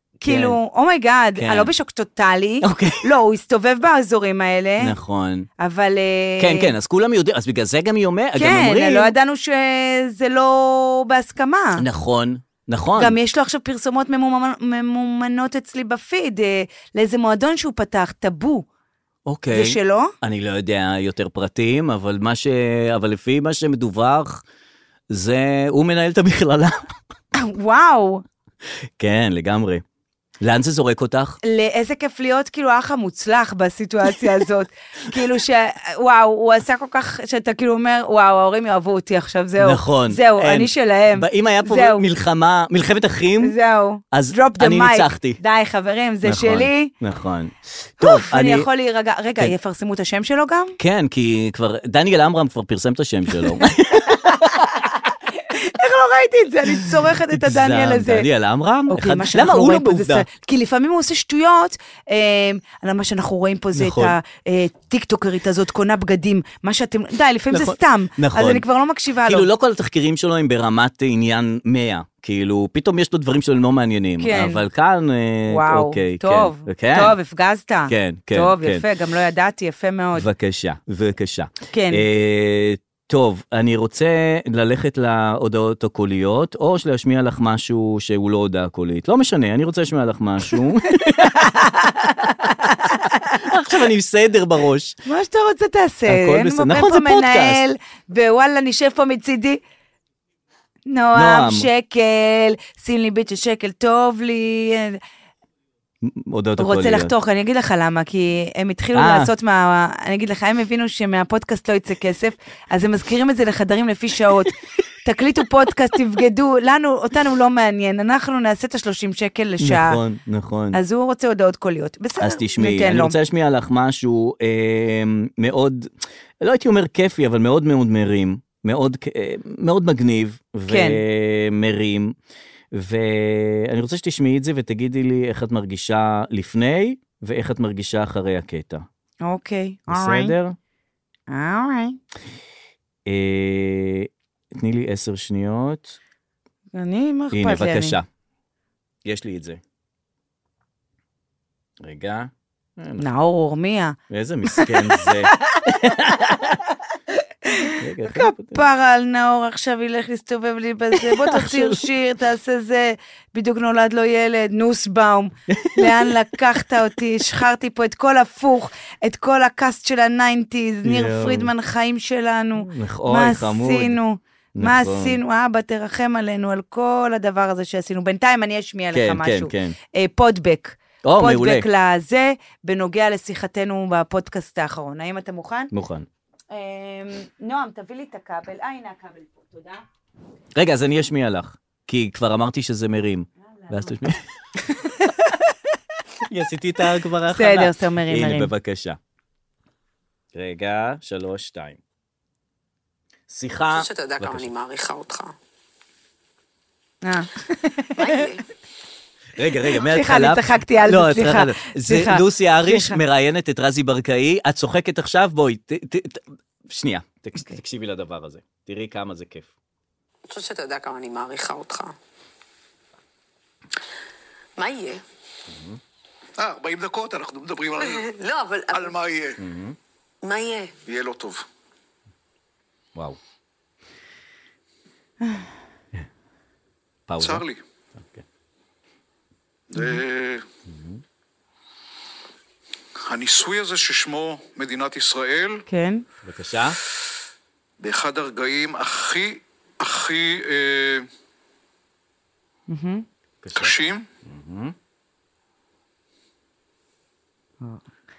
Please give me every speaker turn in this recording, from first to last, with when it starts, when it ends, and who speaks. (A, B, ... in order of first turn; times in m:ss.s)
0:00.2-0:04.9 A
0:00.3-0:00.6 B
0:01.4-0:01.7 B
0:02.6-0:03.1 B
0:04.8-0:05.5 B
0:05.6-0:06.7 A
0:06.4-0:09.1 B
0:08.4-0:11.8 A
0:11.8-0:13.2 B
0:13.0-0:18.6 A
0:19.2-0:24.4 B
0:19.5-0:20.1 A
0:25.1-0:26.9 B
0:27.3-0:28.2 A
0:29.0-0:29.8 B
0:30.4-0:31.4 B
0:31.4-0:42.0 A
0:39.6-0:43.6 B
0:43.4-0:46.9 A
0:44.1-0:45.4 B
0:46.2-0:48.7 B
0:48.0-0:50.8 A
0:50.8-0:54.7 B
0:54.0-0:58.3 A
0:56.8-1:00.2 B
0:58.9-1:09.5 A
1:03.7-1:04.1 B
1:07.5-1:08.6 B
1:09.2-1:17.2 B
1:14.2-1:14.6 A
1:15.5-1:20.3 A
1:17.9-1:18.8 B
1:20.1-1:31.5 B
1:21.7-1:22.0 A
1:31.0-1:33.5 A
1:33.3-1:35.0 B
1:35.0-1:39.6 A
1:36.1-1:37.6 B
1:40.9-1:45.0 A
1:41.1-1:41.7 B
1:46.0-1:47.1 B
1:46.6-2:00.0 A
1:48.9-1:49.3 B
1:59.6-2:00.8 B
2:00.7-2:03.2 A
2:02.2-2:12.1 B
2:10.7-2:11.0 A
2:12.7-2:18.8 B
2:19.2-2:20.3 A
2:19.9-2:20.6 B
2:21.3-2:22.0 A
2:23.0-2:26.0 B
2:26.7-2:28.0 A
2:27.3-2:28.0 B
2:29.0-2:29.6 B
2:31.8-2:33.0 B
2:33.0-2:35.6 A
2:34.1-2:36.6 B
2:37.4-3:05.7 A
2:37.8-2:38.6 B
2:40.9-2:41.8 B
2:45.5-2:46.1 B
2:50.8-2:51.5 B
2:52.6-2:54.0 B
2:54.5-2:55.2 B
2:58.9-2:59.7 B
3:01.0-3:01.6 B
3:05.7-3:06.1 B
3:06.5-3:09.8 A
3:10.5-3:14.2 B
3:13.6-3:14.0 A
3:14.7-3:15.5 A
3:16.2-3:19.0 B
3:17.3-3:18.5 A
3:20.3-3:21.8 B
3:23.3-3:24.5 B
3:23.7-3:25.3 C
3:27.0-3:28.3 A
3:28.0-3:28.4 C
3:29.4-3:39.5 B
3:29.7-3:33.0 A
3:40.3-3:41.9 C
3:44.6-3:45.0 C
3:45.5-3:45.8 B
3:46.4-3:48.1 D
3:47.8-3:49.0 C
3:48.7-3:49.4 D
3:49.4-3:49.8 B
3:50.2-3:50.7 C
3:50.8-3:51.4 D
3:57.1-3:57.4 B
3:57.2-3:57.6 D
3:58.0-3:58.2 B
3:59.7-4:00.4 D
4:00.7-4:01.0 B
4:03.0-4:05.6 D
4:05.7-4:06.0 A
4:06.2-4:06.8 B
4:07.8-4:11.1 D
4:12.7-4:13.0 A
4:13.4-4:13.7 B
4:13.5-4:14.0 D
4:14.2-4:14.7 B